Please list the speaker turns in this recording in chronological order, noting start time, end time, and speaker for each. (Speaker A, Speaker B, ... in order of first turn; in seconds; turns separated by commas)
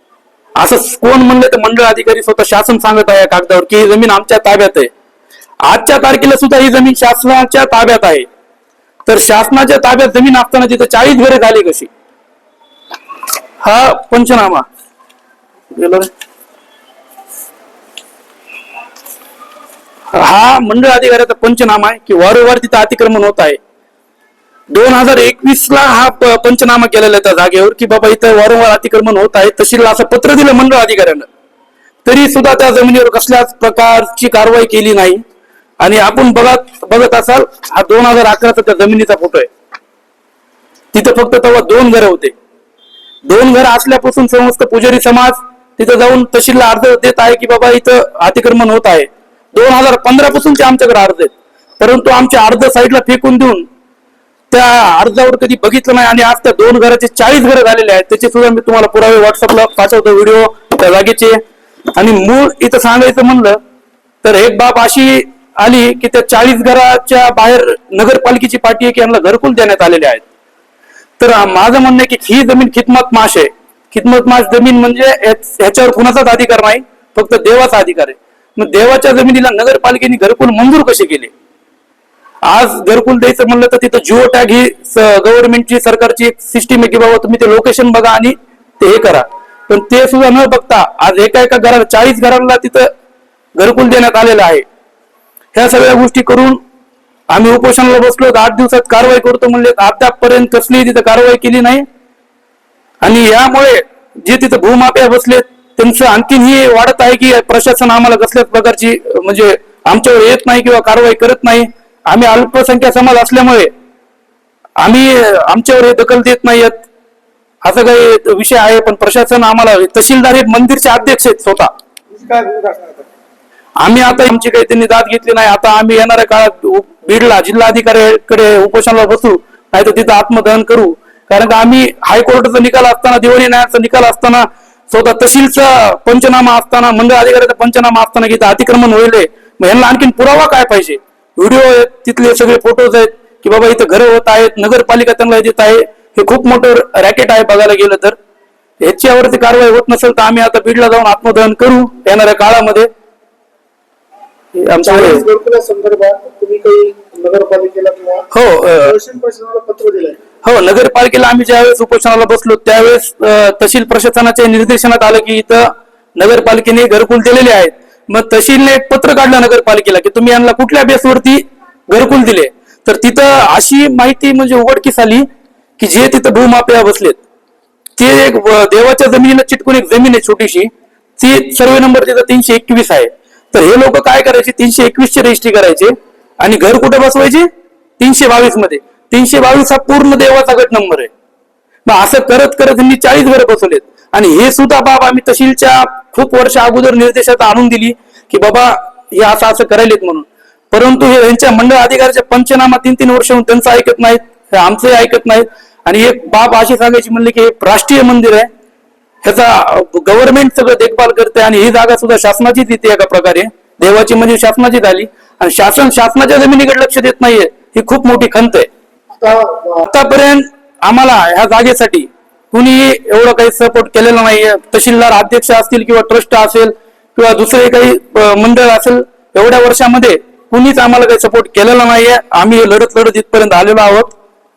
Speaker A: 0.6-4.9, Speaker A: 5.6-8.3, Speaker A: 9.1-11.9, Speaker A: 13.6-14.6, Speaker A: 15.7-16.1, Speaker A: 20.1-23.6, Speaker A: 24.7-31.3, Speaker A: 32.0-35.2, Speaker A: 35.8-39.5, Speaker A: 40.9-42.3, Speaker A: 43.2-53.7, Speaker A: 54.5-61.4, Speaker A: 62.0-63.6, Speaker A: 64.2-70.2, Speaker A: 71.2-81.3, Speaker A: 82.5-92.9, Speaker A: 93.6-94.6, Speaker A: 95.5-96.6, Speaker A: 97.3-101.8, Speaker A: 103.0-113.7, Speaker A: 114.8-116.9, Speaker A: 117.6-121.7, Speaker B: 122.1-123.1, Speaker A: 123.8-148.2, Speaker A: 148.8-152.9, Speaker A: 154.6-155.2, Speaker B: 154.8-158.3, Speaker A: 158.3-158.9, Speaker B: 158.8-160.2, Speaker A: 160.4-175.3, Speaker A: 175.8-177.2, Speaker A: 178.0-187.5, Speaker A: 188.0-191.1, Speaker A: 191.9-208.5, Speaker A: 209.2-218.7, Speaker B: 219.1-219.9, Speaker A: 219.8-234.1